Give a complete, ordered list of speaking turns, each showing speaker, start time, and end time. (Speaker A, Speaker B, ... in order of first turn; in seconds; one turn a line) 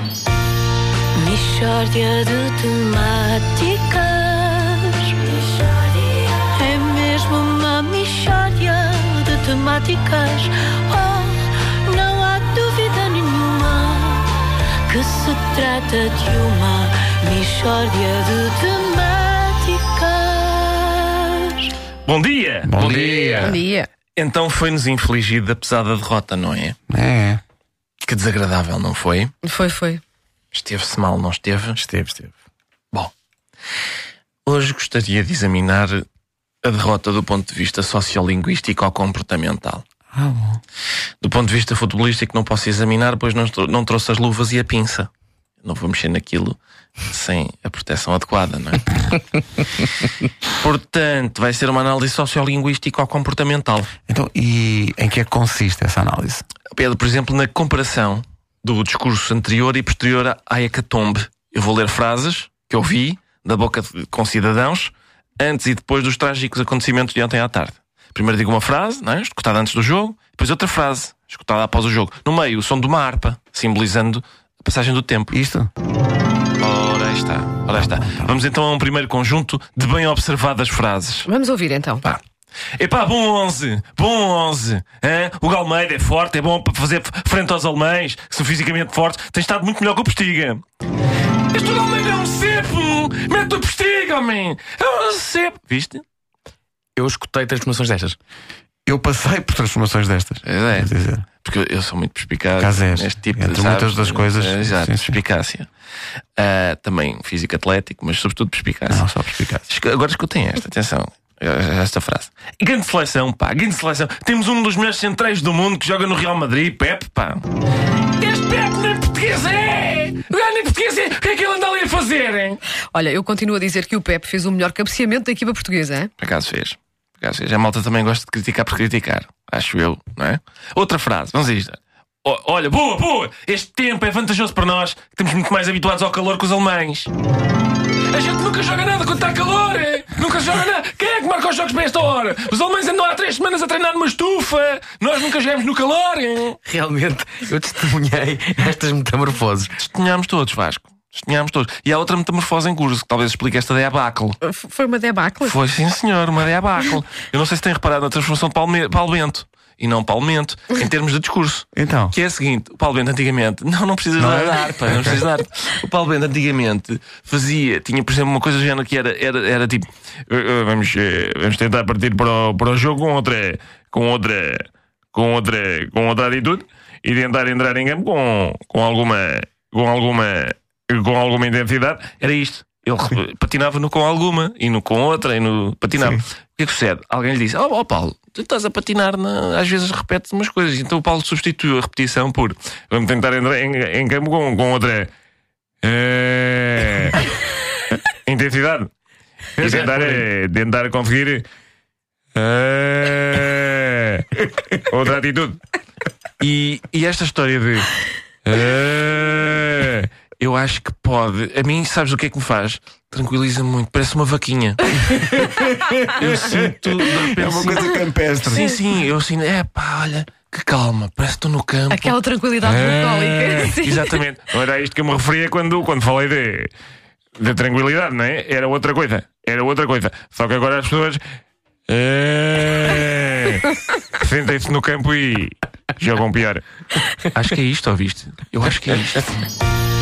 Speaker A: 1.1-21.7
Speaker B: 22.0-23.6
Speaker C: 22.6-23.6
Speaker D: 23.4-23.9
Speaker B: 24.1-26.8
Speaker C: 26.9-27.4
Speaker B: 28.0-29.3
Speaker D: 29.4-30.0
Speaker B: 30.5-31.8
Speaker E: 31.8-32.3
Speaker B: 34.5-36.1
Speaker B: 36.6-39.8
Speaker C: 40.1-40.6
Speaker B: 41.2-45.1
Speaker B: 45.6-46.6
Speaker B: 47.1-49.0
Speaker B: 50.6-53.9
Speaker C: 54.1-56.4
Speaker B: 56.7-75.3
Speaker C: 75.3-75.7
Speaker B: 76.6-81.3
Speaker C: 78.0-78.3
Speaker D: 81.3-82.0
Speaker B: 82.8-90.6
Speaker B: 91.5-96.0
Speaker E: 97.0-98.2
Speaker C: 98.9-101.2
Speaker B: 100.4-100.9
Speaker B: 101.4-105.7
Speaker C: 102.6-105.2
Speaker B: 106.4-109.0
Speaker C: 108.9-109.7
Speaker B: 109.7-117.5
Speaker B: 118.2-122.6
Speaker D: 122.9-126.1
Speaker B: 126.2-137.1
Speaker B: 138.1-146.6
Speaker E: 146.7-149.7
Speaker B: 149.8-154.4
Speaker D: 154.4-155.6
Speaker B: 155.4-195.1
Speaker C: 161.8-162.2
Speaker C: 164.2-165.2
Speaker B: 195.8-197.2
Speaker B: 198.3-198.9
Speaker B: 199.6-201.5
Speaker E: 199.6-200.2
Speaker B: 202.3-204.3
Speaker B: 204.9-205.6
Speaker B: 206.4-207.9
Speaker B: 208.4-215.5
Speaker C: 215.4-216.5
Speaker B: 216.1-226.7
Speaker C: 217.1-218.8
Speaker D: 221.9-224.2
Speaker B: 227.4-231.2
Speaker B: 231.9-236.6
Speaker B: 237.3-239.4